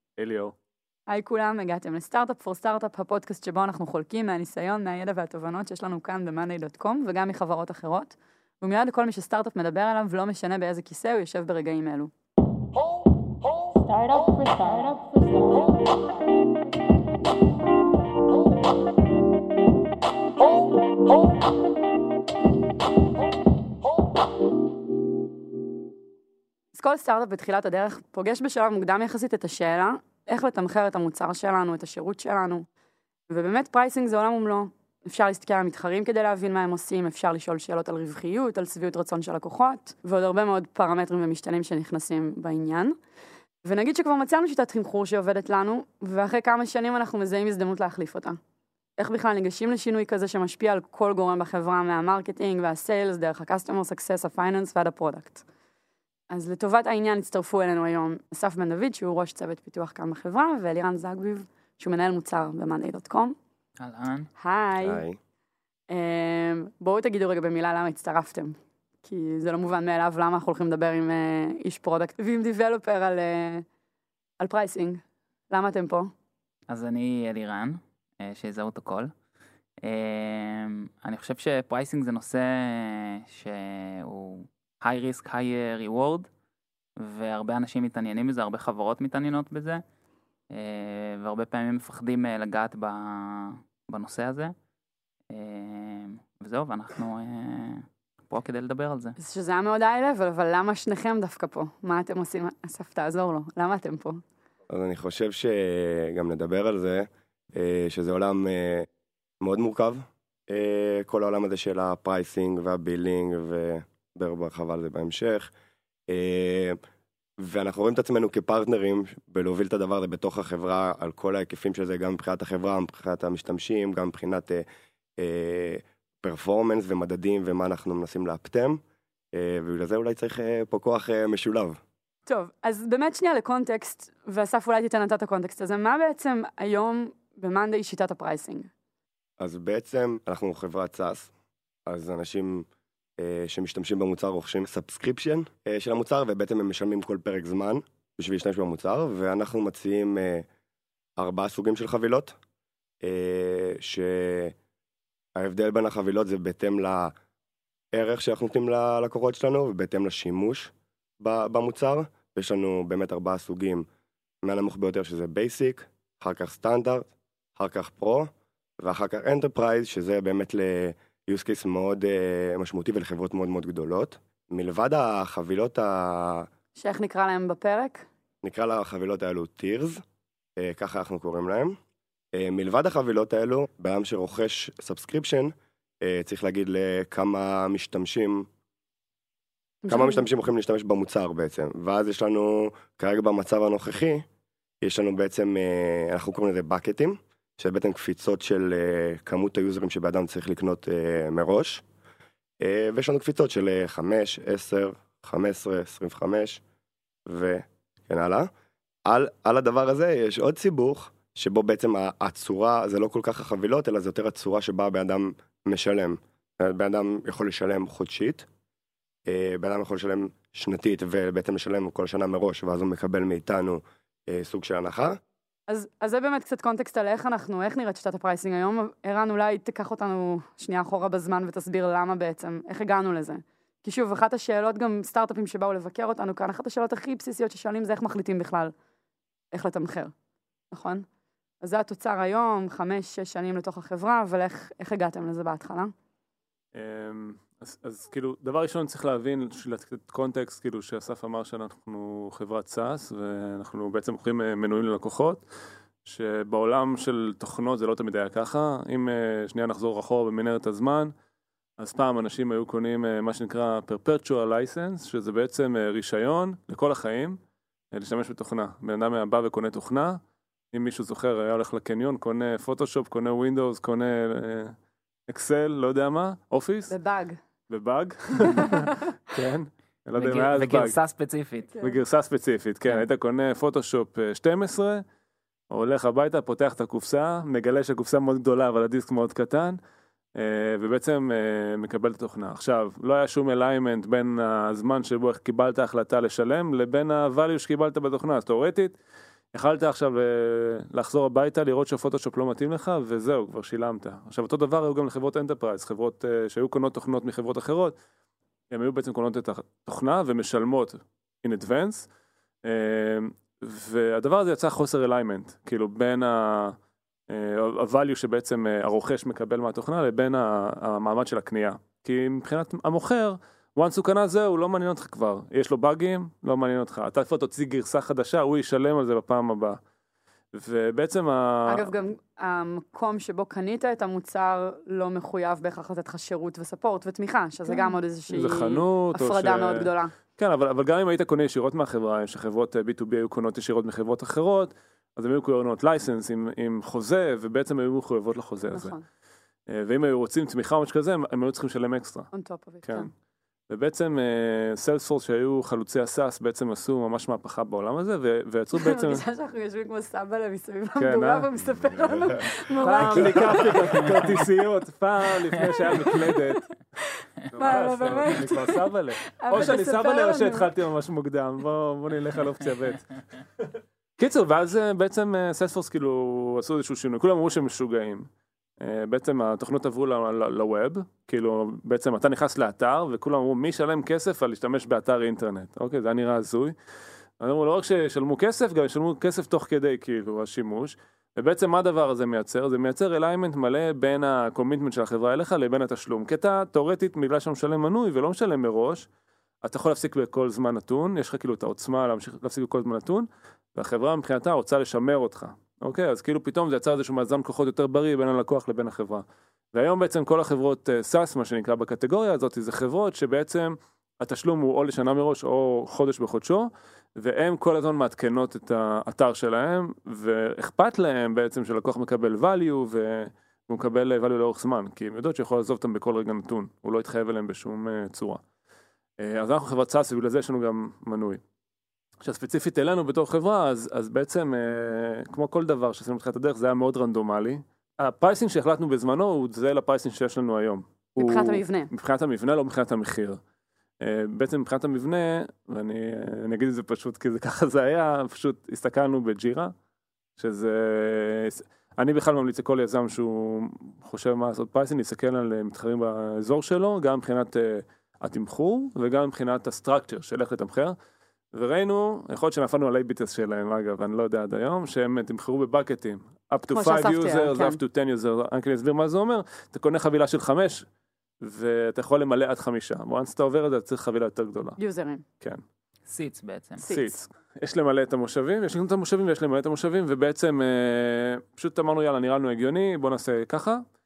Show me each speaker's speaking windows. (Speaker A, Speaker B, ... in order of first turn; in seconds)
Speaker A: 0.2-0.6, 246.7-255.4, 256.1-261.1, 261.8-267.4, 267.9-270.2, 270.7-274.7, 275.3-276.9, 277.7-281.0, 281.8-285.0, 285.7-289.8, 290.4-298.9, 299.5-308.0, 308.7-312.1, 312.6-316.8, 317.3-329.8, 330.5-331.9, 337.7-349.0, 349.7-352.3, 352.8-353.1, 353.7-359.2, 361.0-361.5, 362.7-366.7, 367.5-378.3, 378.8-386.8, 387.4-399.1, 399.6-428.4, 429.2-431.4, 432.2-443.4, 444.0-449.7, 450.4-461.0, 461.5-470.9, 471.4-474.8, 476.9-483.8
Speaker B: 1.1-12.1, 26.7-32.7, 33.3-43.0, 43.6-48.4, 49.0-55.4, 56.3-63.4, 64.4-65.0, 65.9-73.7, 74.4-76.1, 99.2-104.2, 132.3-138.7, 176.8-178.1, 189.8-190.2, 225.7-238.7, 239.5-240.1, 240.7-241.1, 241.6-245.9, 276.9-277.4, 278.6-278.9, 281.7-282.0, 331.7-340.1, 348.7-349.0, 352.3-353.1, 358.8-364.4, 365.8-366.4, 367.1-370.7, 441.2-441.9, 466.7-467.8, 474.8-475.2, 476.8-477.1
Speaker C: 13.9-16.0
Speaker D: 63.8-64.3, 76.7-79.1, 79.8-86.3, 87.0-89.8, 90.5-94.5, 95.3-99.2, 280.2-281.7, 476.1-476.8
Speaker E: 64.8-65.2, 104.7-108.9, 109.4-115.5, 116.1-116.8, 117.4-124.7, 125.2-128.8, 129.3-131.8, 139.4-141.3, 141.9-142.7, 143.2-150.5, 151.2-152.4, 153.0-154.6, 155.4-157.1, 157.9-163.9, 164.4-168.3, 168.8-176.5, 178.4-180.0, 180.6-181.8, 182.3-188.5, 189.9-194.3, 194.8-201.8, 202.6-206.6, 207.3-208.5, 209.1-218.5, 219.3-225.2